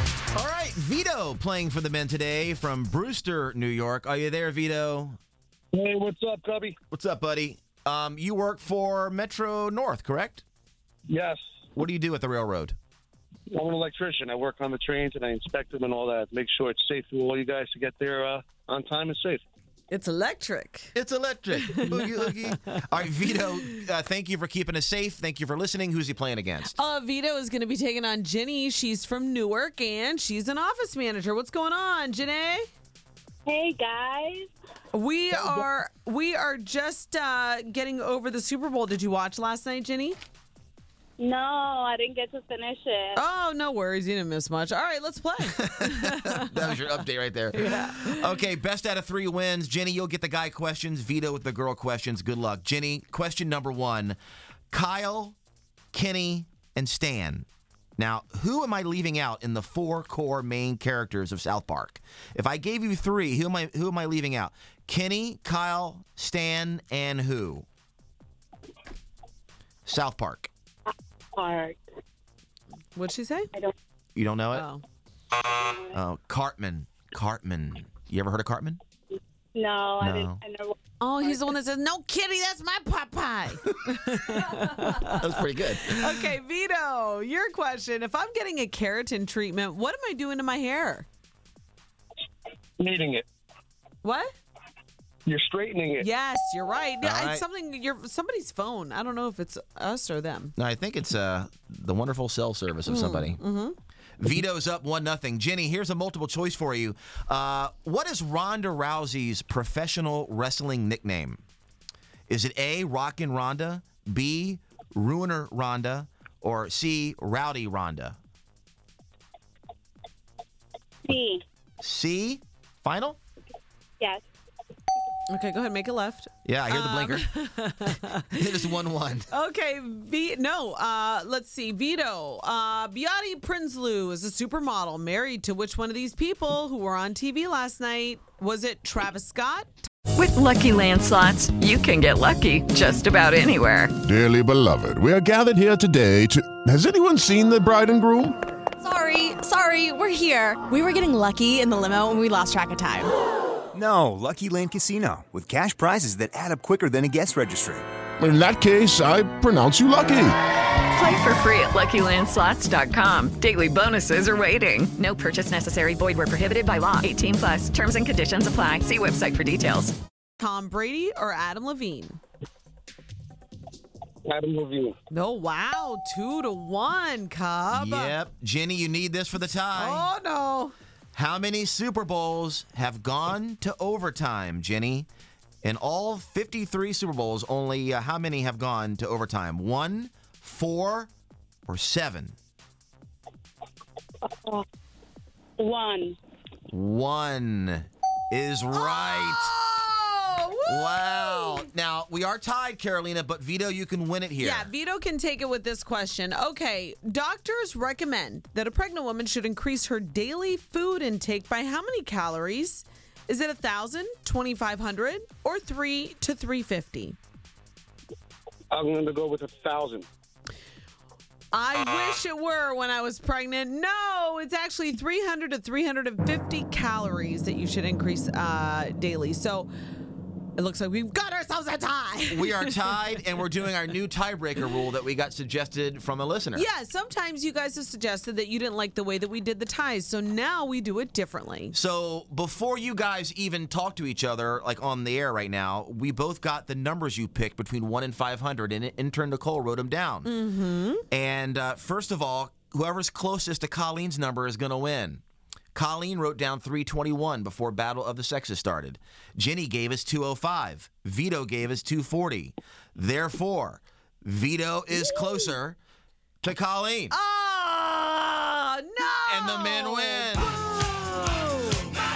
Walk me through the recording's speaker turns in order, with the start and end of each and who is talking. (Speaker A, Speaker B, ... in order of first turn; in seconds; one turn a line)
Speaker A: 0.3-5.2
Speaker B: 5.7-6.8
Speaker A: 6.9-10.4
Speaker B: 11.1-11.4
Speaker A: 11.8-12.7
Speaker B: 13.5-19.4
Speaker C: 19.9-20.9
Speaker A: 20.9-26.7
Speaker C: 21.6-22.3
Speaker C: 26.7-32.7
Speaker D: 33.5-34.5
Speaker C: 34.9-40.2
Speaker D: 41.2-43.2
Speaker C: 43.1-46.7
Speaker A: 45.8-54.2
Speaker C: 47.5-48.3
Speaker A: 54.7-55.4
Speaker A: 55.9-67.7
Speaker A: 69.9-70.5
Speaker D: 71.3-71.8
Speaker C: 72.9-73.5
Speaker A: 74.1-74.7
Speaker C: 74.5-74.8
Speaker D: 75.6-75.9
Speaker A: 75.9-78.8
Speaker D: 79.5-80.8
Speaker A: 80.0-80.4
Speaker C: 81.0-85.2
Speaker A: 85.0-86.2
Speaker C: 85.8-91.1
Speaker B: 92.8-93.2
Speaker C: 94.0-94.3
Speaker B: 95.2-96.0
Speaker C: 96.0-100.5
Speaker A: 97.0-97.4
Speaker A: 100.6-103.4
Speaker C: 102.9-103.8
Speaker A: 104.2-111.4
Speaker A: 112.3-118.2
Speaker D: 121.0-121.4
Speaker A: 121.8-123.2
Speaker C: 125.3-128.4
Speaker A: 126.4-127.3
Speaker A: 128.3-129.3
Speaker C: 129.3-139.9
Speaker E: 140.2-143.9
Speaker F: 144.1-148.3
Speaker G: 148.8-153.1
Speaker H: 153.7-157.8
Speaker F: 158.2-160.3
Speaker E: 160.9-169.9
Speaker C: 170.4-172.2
Speaker B: 174.2-174.9
Speaker C: 175.1-178.2
Speaker A: 177.7-180.1
Speaker C: 179.7-180.7
Speaker A: 181.1-185.1
Speaker A: 185.6-191.1
Speaker A: 191.7-192.3
Speaker D: 194.3-194.6
Speaker D: 195.6-196.2
Speaker A: 196.7-199.5
Speaker C: 198.7-201.7
Speaker A: 200.7-204.7
Speaker C: 204.4-217.2
Speaker B: 218.7-220.1
Speaker C: 221.5-229.7
Speaker C: 230.6-232.7
Speaker A: 232.2-236.7
Speaker C: 236.5-241.7
Speaker A: 241.7-250.3
Speaker C: 250.2-251.0
Speaker A: 251.1-255.2
Speaker A: 255.7-265.8
Speaker C: 265.0-265.4
Speaker A: 266.4-267.1
Speaker C: 267.1-271.9
Speaker A: 269.2-270.5